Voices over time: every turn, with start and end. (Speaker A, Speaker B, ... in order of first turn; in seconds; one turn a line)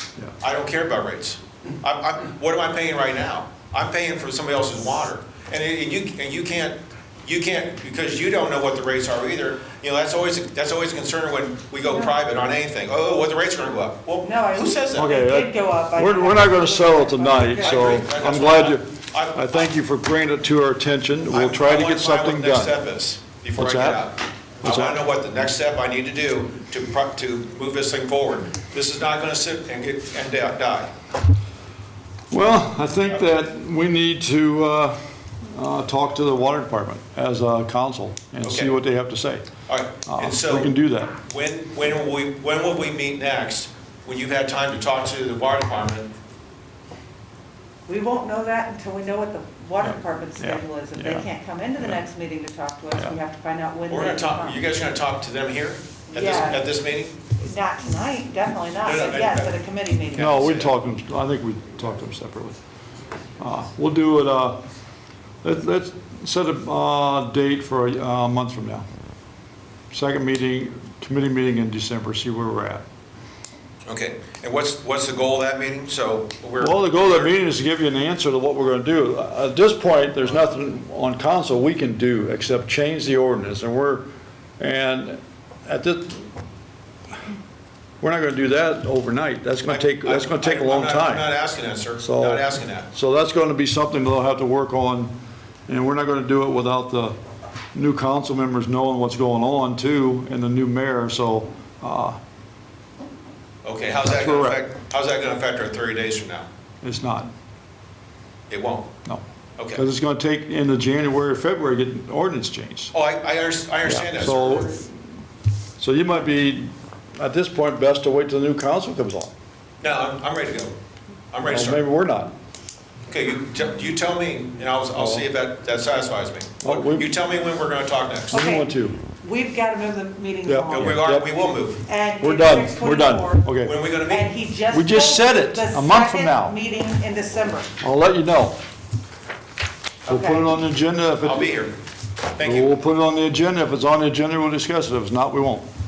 Speaker A: 0.4-15.1
Speaker B: 11.9-12.1
Speaker B: 14.2-18.0
Speaker C: 15.0-22.8
Speaker A: 17.6-19.7
Speaker A: 21.3-30.9
Speaker C: 23.6-24.1
Speaker C: 24.6-25.0
Speaker C: 32.3-35.0
Speaker C: 35.5-39.5
Speaker A: 38.4-38.7
Speaker A: 39.7-46.1
Speaker C: 40.1-41.1
Speaker B: 47.9-54.6
Speaker C: 49.8-51.3
Speaker A: 53.9-57.2
Speaker B: 56.1-56.6
Speaker B: 57.3-60.6
Speaker A: 58.8-59.6
Speaker A: 60.1-60.7
Speaker C: 60.2-62.6
Speaker C: 63.4-64.6
Speaker C: 65.4-68.8
Speaker C: 69.9-72.8
Speaker A: 73.9-77.3
Speaker C: 76.6-84.0
Speaker C: 84.6-86.3
Speaker C: 88.0-91.3
Speaker A: 89.7-92.9
Speaker C: 92.0-95.1
Speaker C: 95.7-97.2
Speaker C: 97.7-102.2
Speaker A: 103.6-106.5
Speaker C: 104.0-104.6
Speaker C: 106.8-107.3
Speaker A: 108.5-108.9
Speaker C: 109.0-112.9
Speaker A: 109.6-109.8
Speaker A: 112.9-114.8
Speaker C: 113.8-114.9
Speaker C: 115.8-119.3
Speaker A: 119.8-120.8
Speaker A: 121.3-121.8
Speaker C: 121.5-122.3
Speaker A: 123.1-128.4
Speaker C: 125.0-125.3
Speaker C: 126.6-127.1
Speaker B: 128.3-131.0
Speaker C: 128.3-129.0
Speaker C: 130.4-131.3
Speaker A: 130.7-131.8
Speaker B: 131.9-133.5
Speaker C: 132.2-133.7
Speaker A: 133.6-134.3
Speaker B: 134.1-137.7
Speaker C: 134.7-136.6
Speaker C: 137.8-138.6
Speaker C: 140.1-141.5
Speaker B: 140.1-140.5
Speaker A: 141.2-141.8
Speaker A: 142.3-142.7
Speaker C: 142.4-145.7